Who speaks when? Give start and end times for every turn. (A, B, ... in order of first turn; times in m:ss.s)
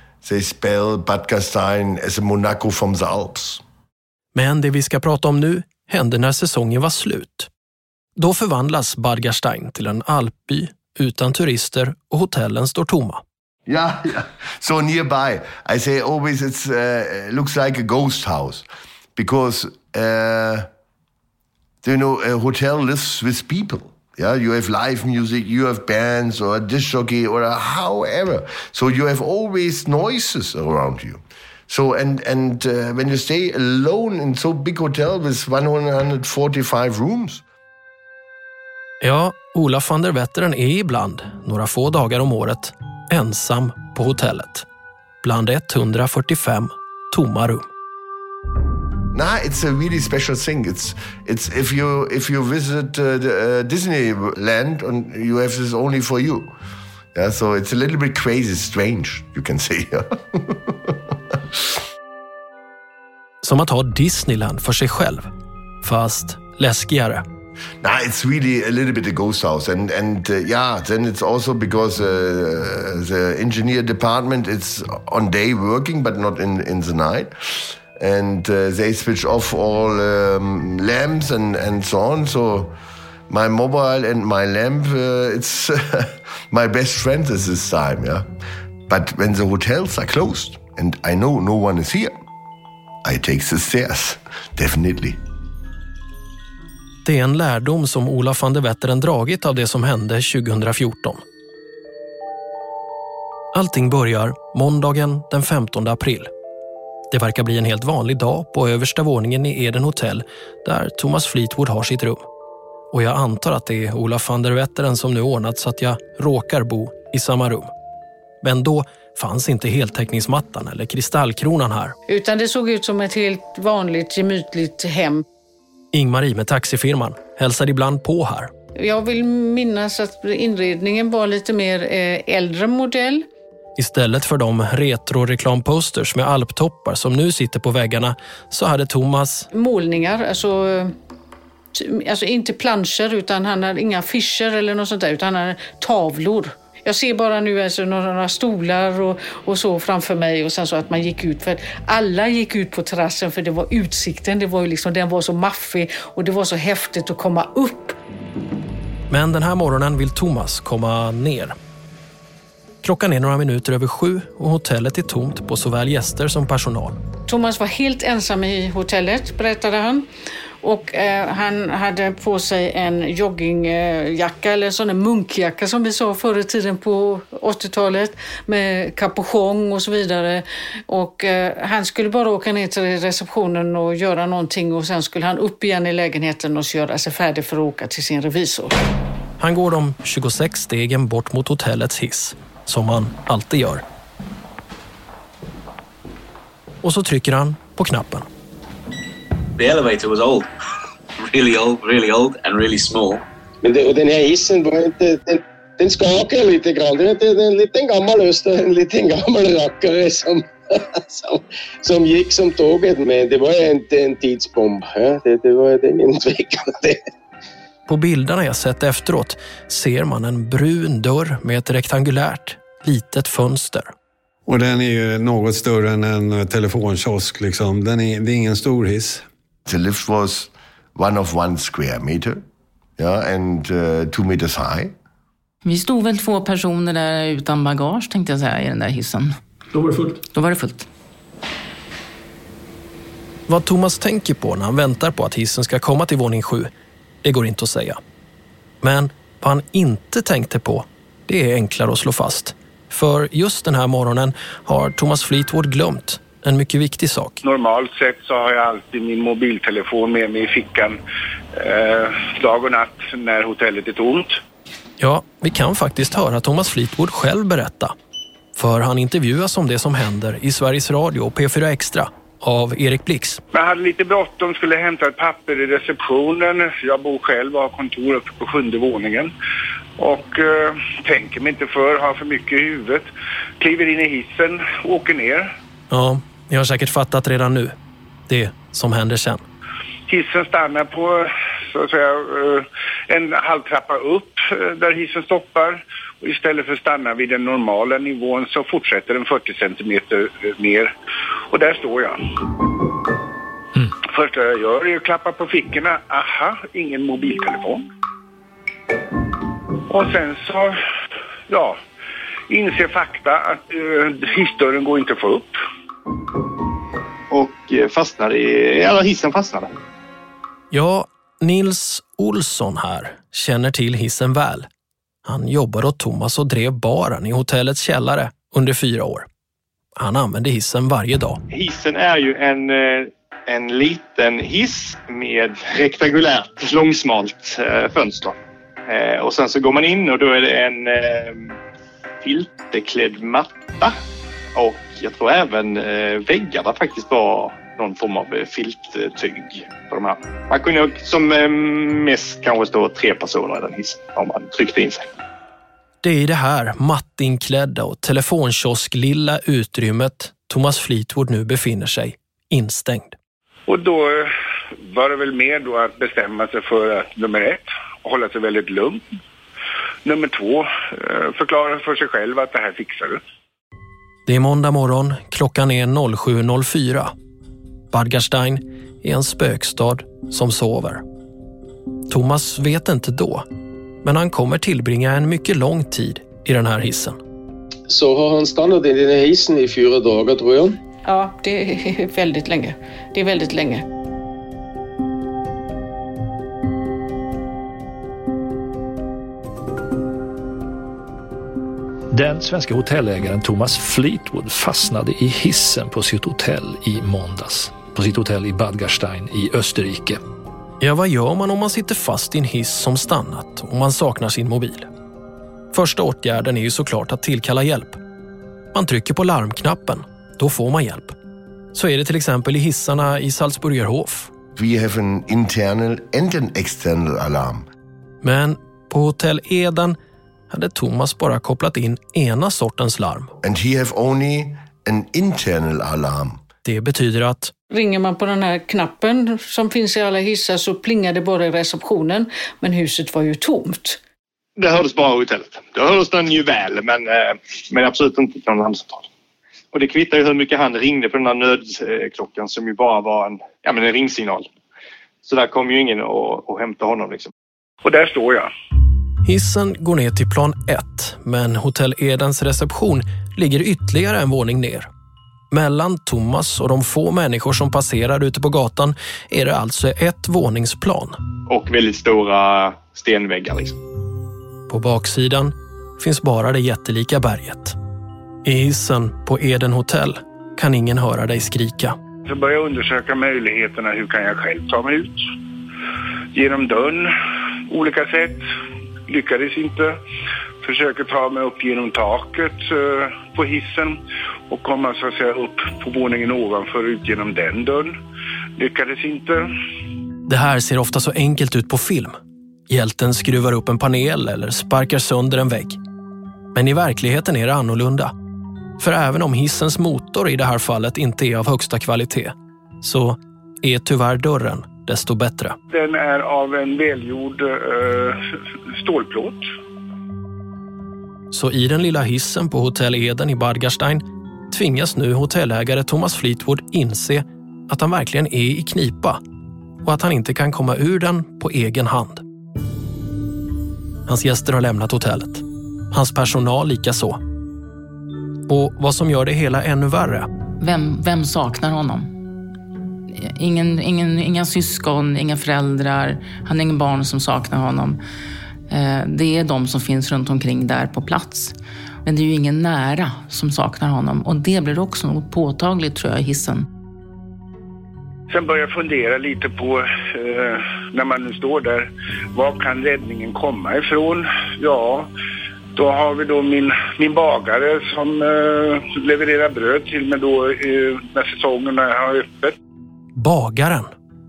0:00.2-0:03.6 A
0:04.4-0:07.5 B
0:08.2-0:13.2 B
0:13.7-0:20.7 A
0:21.8-0:37.4 A
0:39.0-0:44.6 B
0:45.2-0:47.7 B
0:49.1-0:56.5 A
0:57.2-1:01.6 A
1:03.4-1:05.3 B
1:05.8-1:07.2 B
1:07.8-1:22.7 A
1:23.3-1:28.2 A
1:28.9-1:32.2 A
1:33.0-1:35.2 A
1:37.0-1:41.2 B
1:43.5-1:46.3 B
1:47.1-1:52.2 B
1:52.9-1:57.7 B
1:58.4-2:02.0 B
2:02.1-2:05.2 C
2:05.9-2:08.5 B
2:08.8-2:13.2 C
2:13.8-2:19.5 B
2:19.5-2:20.9 C
2:21.8-2:38.0 C
2:39.1-2:41.5 B
2:42.8-2:47.0 B
2:47.3-2:50.0 C
2:50.6-3:08.8 C
3:09.4-3:13.8 B
3:16.8-3:18.3 B
3:19.6-3:20.5 D
3:21.2-3:23.2 D
3:23.6-3:37.0 E
3:37.9-3:43.9 B
3:44.5-3:49.2 F
3:49.7-3:52.4 A
3:53.0-3:54.9 A
3:55.6-3:59.4 G
4:00.3-4:00.9 G
4:03.5-4:06.7 B
4:07.2-4:08.0 B
4:08.8-4:17.4 B
4:17.4-4:21.0 H
4:21.5-4:24.4 H
4:25.0-4:27.9 B
4:28.5-4:33.4 B
4:33.5-4:39.3 H
4:40.0-4:43.1 H
4:43.6-4:45.5 H
4:45.9-4:47.8 B
4:48.3-4:49.4 B
4:50.1-5:00.9 H
5:01.5-5:02.2 H
5:04.0-5:07.9 H
5:09.9-5:10.8 H
5:11.5-5:11.8 H
5:12.5-5:15.6 H
5:17.3-5:19.7 I
5:20.7-5:24.7 B
5:25.2-5:29.2 B
5:30.0-5:31.4 B
5:31.5-5:38.4 I
5:38.9-5:41.6 I
5:42.2-5:44.0 I
5:44.6-5:55.1 I
5:56.0-6:03.2 B
6:03.7-6:04.3 H
6:04.9-6:09.0 H
6:10.0-6:13.2 H
6:14.2-6:17.1 B
6:17.9-6:21.0 B
6:22.1-6:23.4 B
6:24.0-6:27.2 B
6:27.9-6:30.8 E
6:31.0-6:33.8 C
6:42.1-6:50.2 J
6:50.8-6:54.9 B
6:55.7-6:58.0 B
6:58.7-7:01.2 B
7:01.7-7:04.3 B
7:04.6-7:07.7 A
7:08.2-7:10.0 B
7:10.5-7:13.3 B
7:13.4-7:16.4 A
7:16.6-7:17.5 B
7:17.7-7:24.0 C
7:24.6-7:29.1 I
7:29.7-7:34.5 I
7:35.2-7:37.3 I
7:37.8-7:38.5 H
7:39.2-7:44.9 B
7:45.5-7:51.2 B
7:51.5-7:53.8 I
7:54.7-7:57.8 B
7:58.4-8:02.0 B
8:02.3-8:05.2 H
8:06.3-8:07.1 H
8:07.7-8:08.4 H
8:09.1-8:10.0 H
8:10.6-8:18.0 H
8:18.6-8:19.5 H
8:20.3-8:22.2 B
8:22.7-8:25.8 B
8:26.5-8:28.1 B
8:28.8-8:35.6 B
8:35.7-8:38.2 H
8:38.8-8:39.4 H
8:41.3-8:49.2 B
8:49.8-8:52.2 B
8:54.1-8:57.2 B
8:58.5-9:00.3 B
9:00.6-9:02.1 G
9:03.1-9:08.0 G
9:08.7-9:16.7 G
9:18.3-9:25.1 H
9:25.8-9:32.5 H
9:33.2-9:33.9 B